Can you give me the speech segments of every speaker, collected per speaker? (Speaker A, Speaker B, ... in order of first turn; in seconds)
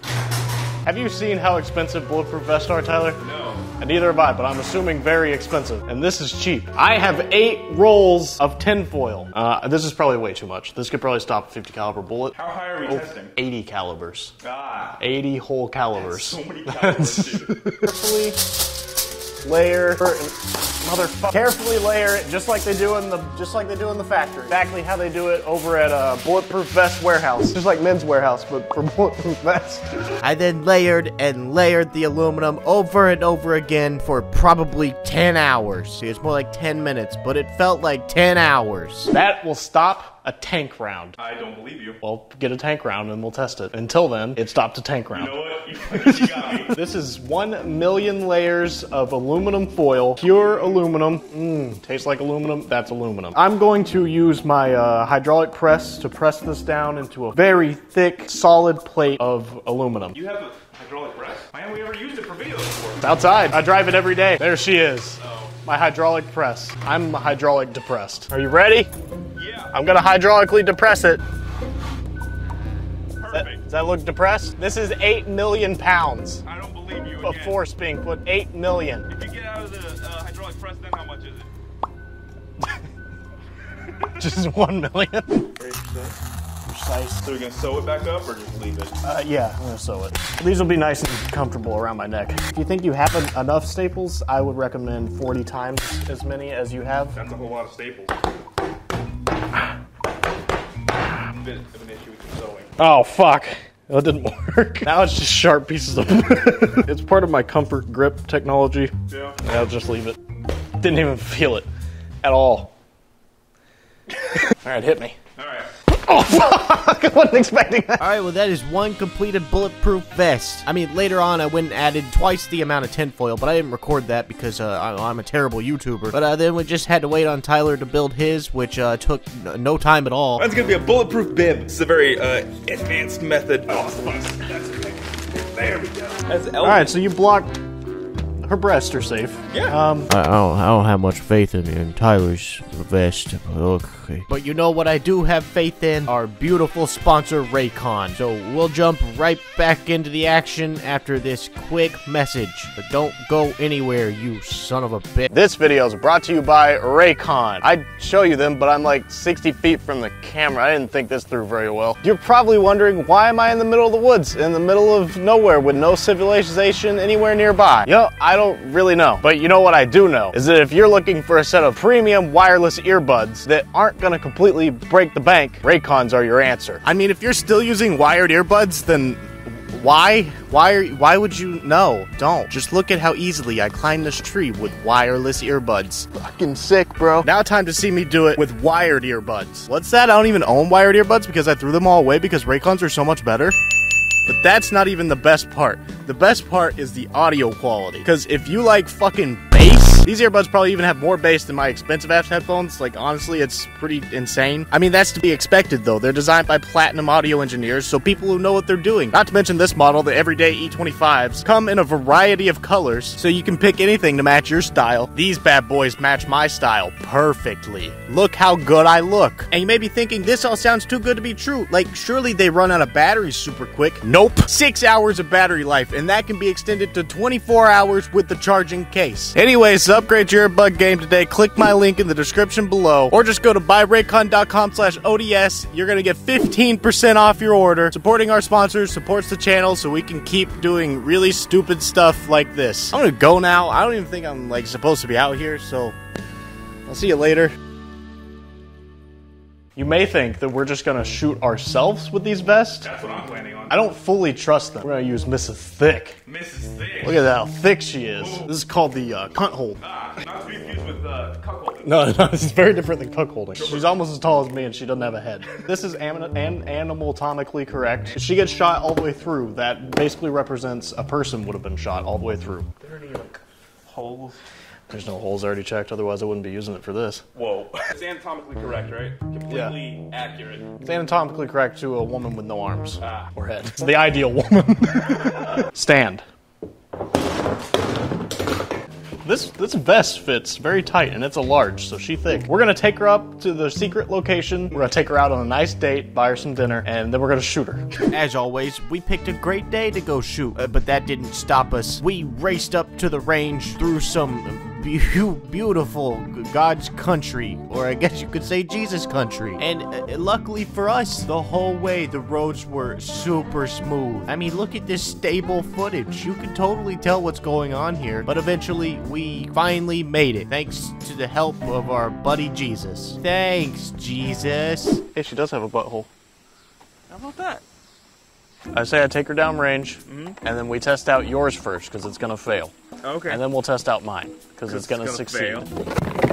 Speaker A: 0.8-3.2, 3.8-12.3, 12.8-14.3, 15.0-18.4, 19.4-30.1, 39.1-41.2, 42.0-45.4, 45.9-60.2, 63.0-68.9, 69.7-71.2, 73.3-76.4, 77.2-79.1, 84.2-85.5, 86.7-87.2, 89.0-97.2, 102.8-110.2, 110.8-111.7, 112.2-112.7, 114.2-115.2, 115.9-118.0, 136.6-137.6, 138.4-140.1, 155.3-193.6, 194.2-245.9, 246.9-247.5, 249.8-252.9, 253.7-256.2, 257.0-259.8, 261.8-272.7, 274.9-277.2, 279.5-279.8, 280.8-286.2, 289.2-297.9, 325.1-326.1, 328.7-332.7, 333.2-335.7
Speaker B: 3.2-3.7, 12.3-13.3, 14.4-15.0, 15.9-17.7, 41.2-42.0, 45.1-46.7, 50.2-50.8, 60.1-63.1, 65.2-65.5, 69.3-69.8, 73.2-73.6, 76.4-77.6, 79.1-81.5, 85.6-86.2, 87.2-89.0, 97.1-98.2, 101.3-102.7, 109.1-109.4, 115.4-115.7, 130.4-136.9, 139.5-139.8, 252.8-253.8, 256.2-257.3, 258.1-258.5, 259.8-261.9, 263.6-263.9, 272.8-274.4, 277.3-280.7, 283.0-283.3, 327.1-327.6, 330.1-330.4, 333.0-333.4, 334.7-335.7
Speaker C: 30.2-39.1, 118.0-130.5, 140.1-155.3, 298.1-325.0